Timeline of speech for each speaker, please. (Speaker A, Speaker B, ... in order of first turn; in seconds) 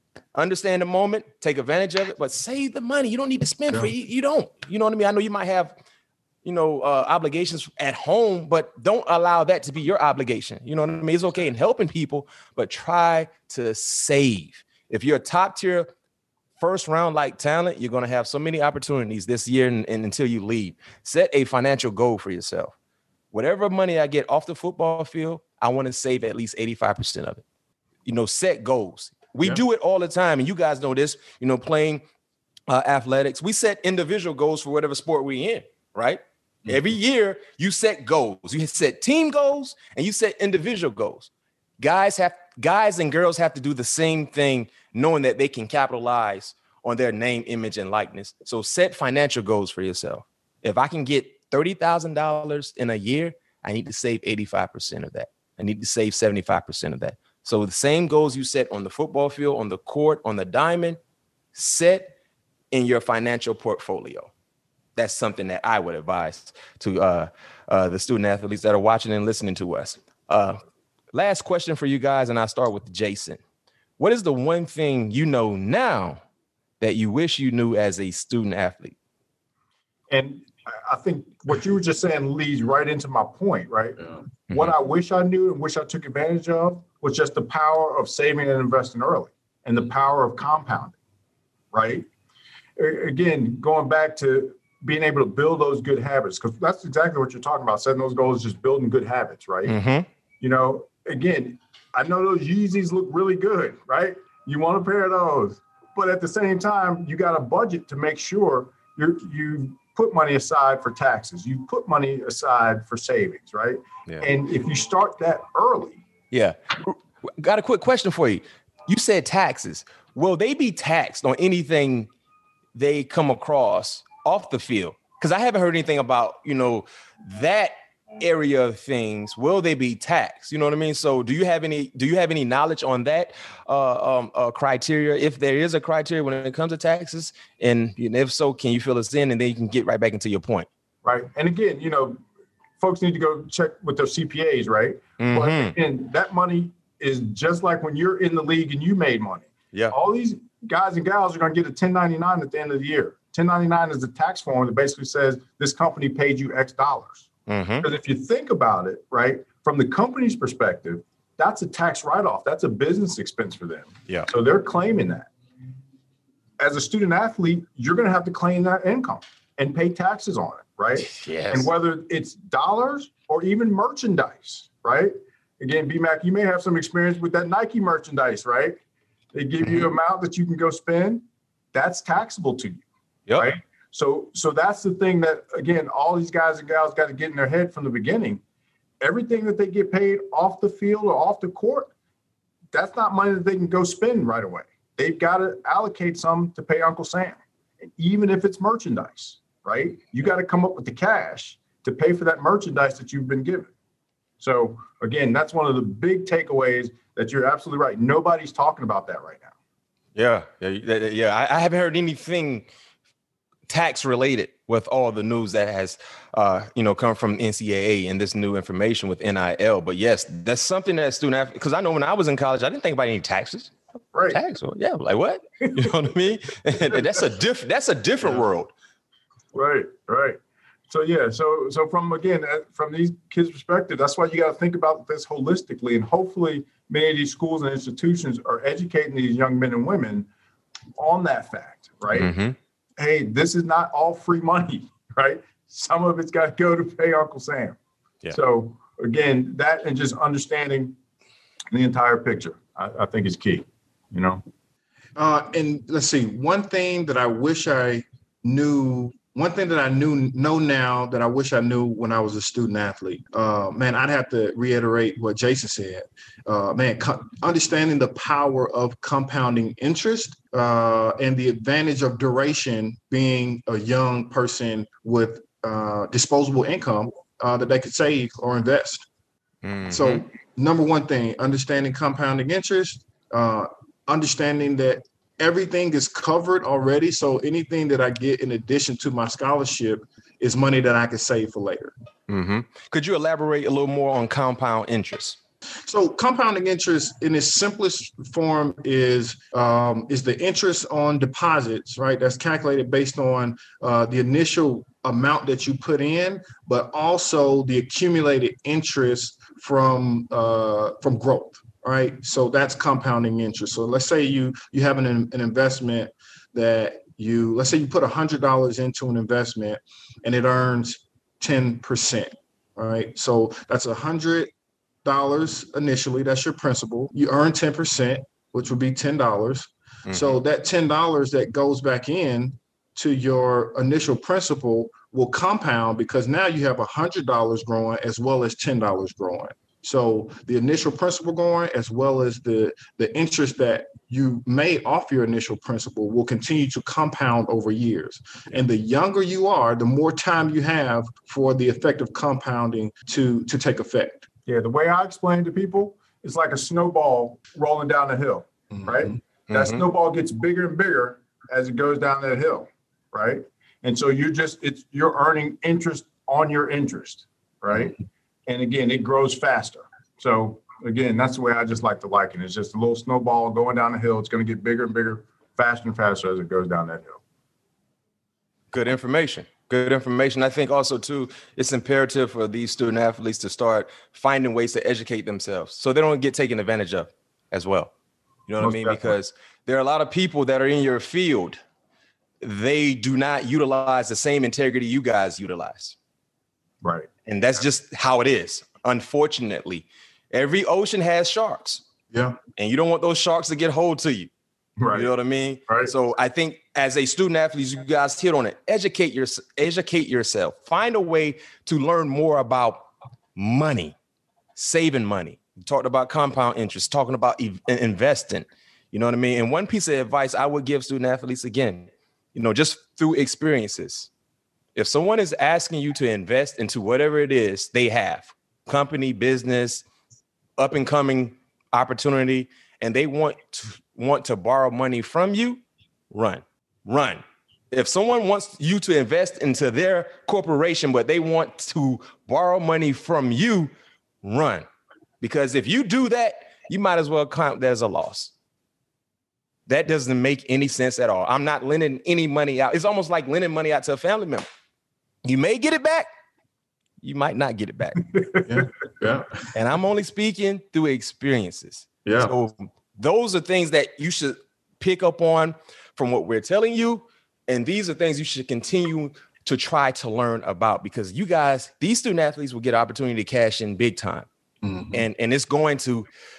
Speaker A: 0.3-5.7, 6.4-15.9, 16.6-22.7, 23.3-27.4, 28.1-32.0, 32.7-61.0, 61.5-62.1, 62.7-64.3, 65.0-70.6, 71.1-73.4, 74.0-76.2, 76.8-79.0, 99.7-100.1, 116.3-122.1, 122.8-140.7, 145.2-145.8, 157.5-157.9, 171.0-171.7, 183.3-183.5, 210.2-212.7, 213.7-223.7, 224.3-228.7, 242.1-242.6, 279.6-280.2, 292.3-295.4, 330.1-330.4, 359.5-359.8, 378.7-387.9, 388.5-391.6, 392.4-396.0, 397.3-401.8, 402.6-404.3, 404.9-414.0, 414.6-424.1, 424.8-429.9, 430.6-443.7, 444.2-444.7, 445.2-448.3, 449.7-454.5, 455.2-456.1, 457.0-458.2, 459.5-474.3, 474.9-476.1
Speaker B: 80.1-91.0, 91.7-92.1, 92.8-99.8, 100.4-116.0, 141.0-142.2, 142.8-157.3, 157.8-165.3, 166.6-178.8, 179.3-182.8, 183.4-188.4, 189.0-191.9, 192.7-197.4, 198.0-203.7, 204.4-209.5, 224.1-224.4, 225.6-225.9, 229.5-240.3, 241.0-242.3, 243.0-247.8, 248.3-250.9, 251.7-254.4, 354.5-377.2, 388.6-389.2, 396.8-397.1, 404.8-405.1
Speaker C: 255.2-279.1, 279.9-291.9, 295.9-324.5, 325.0-354.3, 402.1-402.4, 458.5-459.3, 462.1-462.3, 474.6-475.0